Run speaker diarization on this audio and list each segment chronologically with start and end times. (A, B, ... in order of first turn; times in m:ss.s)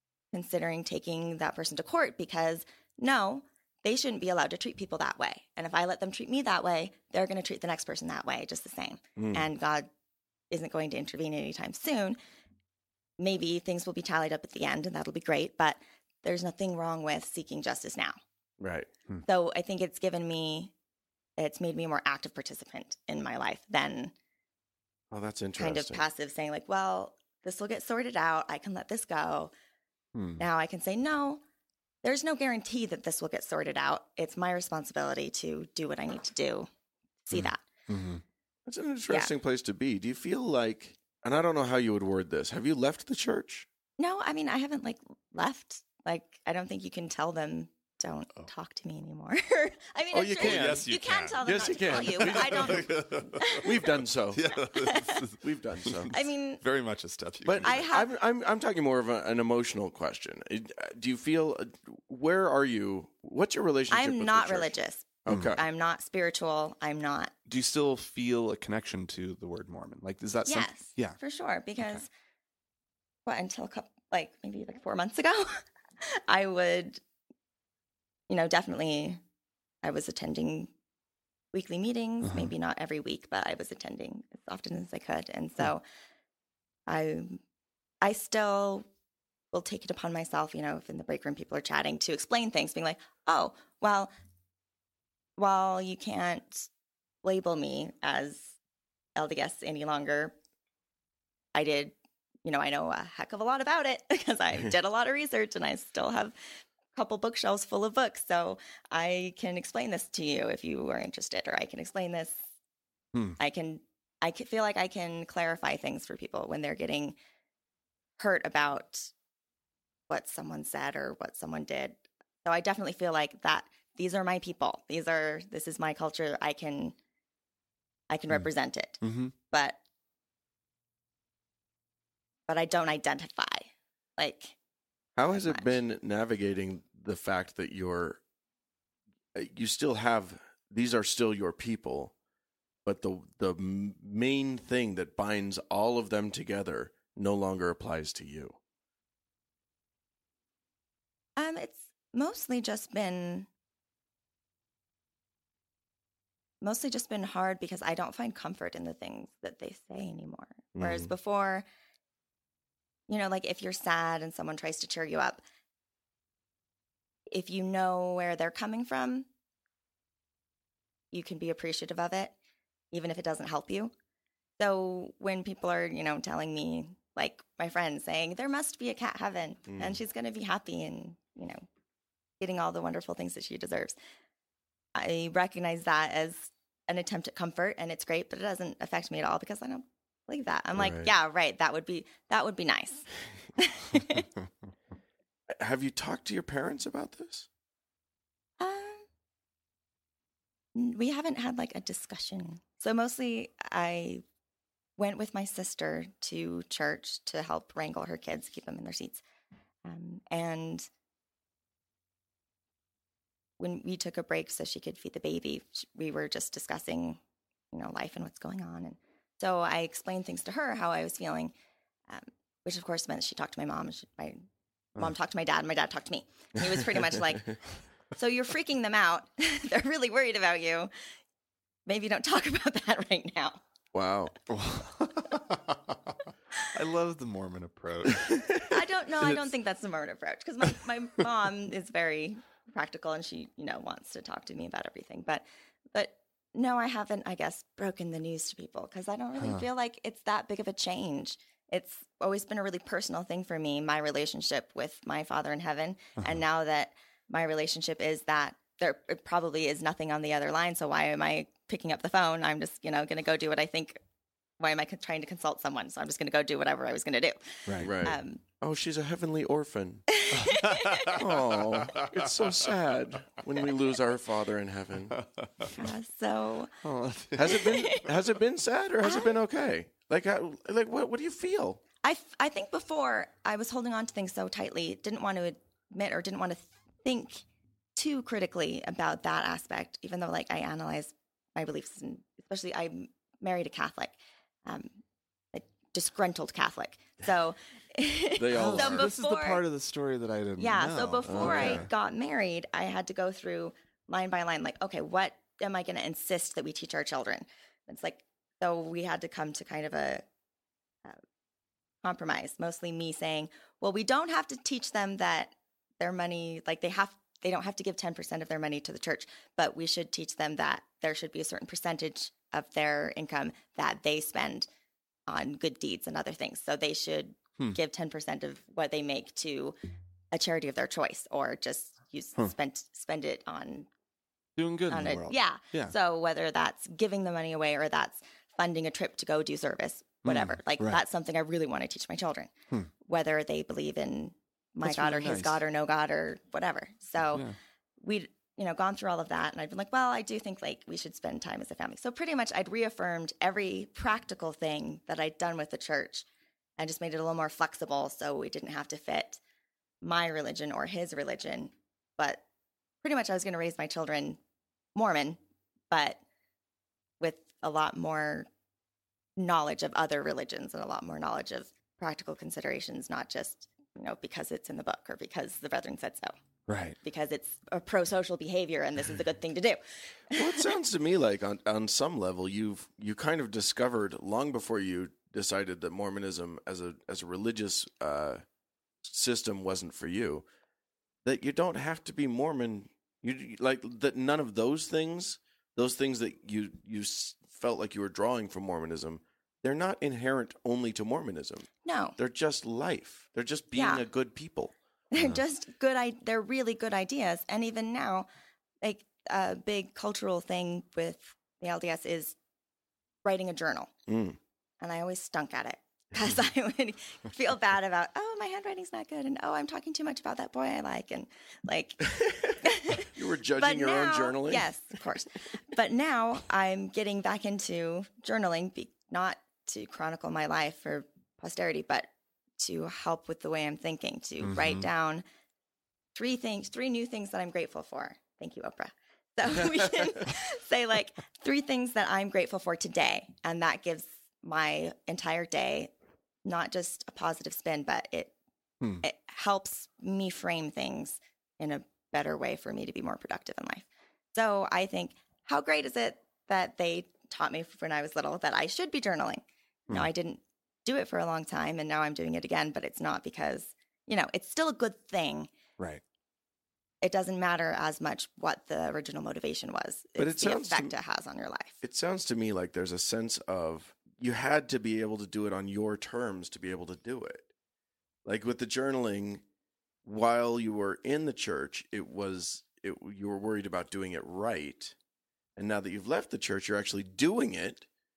0:00.3-0:09.9 A
0:09.2-0:09.5 B
0:10.5-0:12.2 A
0:13.2-0:18.2 A
0:18.6-0:18.9 B
0:19.3-0:20.7 A
0:21.4-0:24.1 A
0:25.1-0:26.0 B
0:25.6-0:29.5 A
0:30.2-0:30.4 C
0:30.4-0:31.4 A
0:32.0-0:36.7 A
0:37.2-0:37.6 A
0:37.3-0:38.2 C
0:38.7-0:43.7 B
0:44.0-0:53.7 A
0:50.1-0:54.5 B
0:50.4-0:53.6 C
0:54.3-0:57.9 C
0:54.7-0:55.3 A
0:55.4-0:56.2 B
0:56.1-0:56.6 A
0:57.4-1:04.7 B
0:57.6-0:58.2 A
1:03.9-1:07.3 A
1:05.3-1:05.6 B
1:07.5-1:11.2 C
1:10.5-1:12.1 A
1:13.3-1:17.0 A
1:18.3-1:19.2 A
1:19.8-1:20.7 A
1:21.5-1:25.8 A
1:22.2-1:22.5 C
1:26.9-1:27.4 A
1:28.0-1:28.8 A
1:29.5-1:34.1 A
1:35.4-1:36.7 A
1:37.2-1:38.5 A
1:39.2-1:40.4 A
1:41.6-1:46.4 A
1:46.9-1:52.4 A
1:53.4-1:57.2 A
1:58.2-1:59.1 A
2:00.1-2:07.0 A
2:08.1-2:09.8 A
2:09.0-2:09.3 C
2:12.5-2:14.6 A
2:15.2-2:18.2 B
2:15.3-2:15.8 A
2:19.3-2:22.1 B
2:22.8-2:28.6 B
2:31.4-2:33.5 A
2:36.6-2:41.7 A
2:40.8-2:41.1 B
2:43.1-2:45.4 A
2:47.3-2:49.3 A
2:51.1-2:52.4 A
2:52.9-2:53.9 A
2:54.6-3:01.6 A
2:59.7-3:00.0 B
3:02.4-3:04.0 A
3:05.0-3:14.3 A
3:10.8-3:11.1 B
3:15.5-3:17.5 B
3:18.6-3:19.1 A
3:20.8-3:24.2 A
3:25.0-3:29.2 A
3:29.8-3:30.9 A
3:33.6-3:37.2 A
3:37.7-3:41.5 A
3:42.1-3:44.4 A
3:45.0-3:47.6 A
3:48.1-3:50.9 A
3:51.9-3:53.6 A
3:53.9-3:54.3 B
3:54.5-3:56.2 C
3:56.7-3:59.4 C
3:58.6-4:24.0 A
4:09.4-4:09.7 C
4:16.2-4:16.4 C
4:24.6-4:28.4 A
4:27.7-4:28.0 C
4:27.8-4:30.1 B
4:30.1-4:31.1 A
4:30.3-4:32.5 C
4:31.1-4:35.2 B
4:35.1-4:35.8 C
4:35.7-4:36.7 A
4:36.8-4:37.9 C
4:37.3-4:41.8 B
4:37.5-4:38.1 A
4:39.0-4:39.3 A
4:42.0-4:47.4 A
4:48.0-4:54.9 A
4:55.5-4:59.6 A
4:58.4-4:59.1 B
4:58.5-5:01.9 C
5:00.6-5:10.2 A
5:01.2-5:01.8 B
5:12.0-5:24.7 A
5:25.3-5:29.8 A
5:30.3-5:33.9 A
5:34.6-5:35.9 C
5:34.9-5:42.5 A
5:40.2-5:41.0 C
5:43.0-5:47.5 A
5:44.8-5:45.6 C
5:48.0-5:56.2 A
5:56.8-5:59.4 A
6:00.0-6:02.4 A
6:03.0-6:04.4 A
6:05.0-6:05.4 A
6:05.9-6:06.2 A
6:07.2-6:08.5 A
6:09.4-6:16.3 A
6:16.7-6:17.0 C
6:17.0-6:20.7 A
6:20.3-6:28.4 B
6:29.0-6:30.5 B
6:31.2-6:44.7 B
6:41.8-6:42.2 A
6:43.8-6:44.0 A
6:45.1-6:48.3 A
6:48.8-6:52.4 A
6:53.2-6:53.9 A
6:54.1-6:54.4 B
6:54.8-7:12.1 A
7:02.1-7:04.7 B
7:12.6-7:15.2 A
7:14.4-7:14.9 C
7:16.2-7:25.9 A
7:26.4-7:28.3 A
7:29.0-7:45.5 A
7:47.0-7:51.8 A
7:50.2-7:51.0 B
7:51.8-7:57.4 B
7:58.2-7:59.4 B
8:00.0-8:05.0 B
8:05.6-8:07.9 B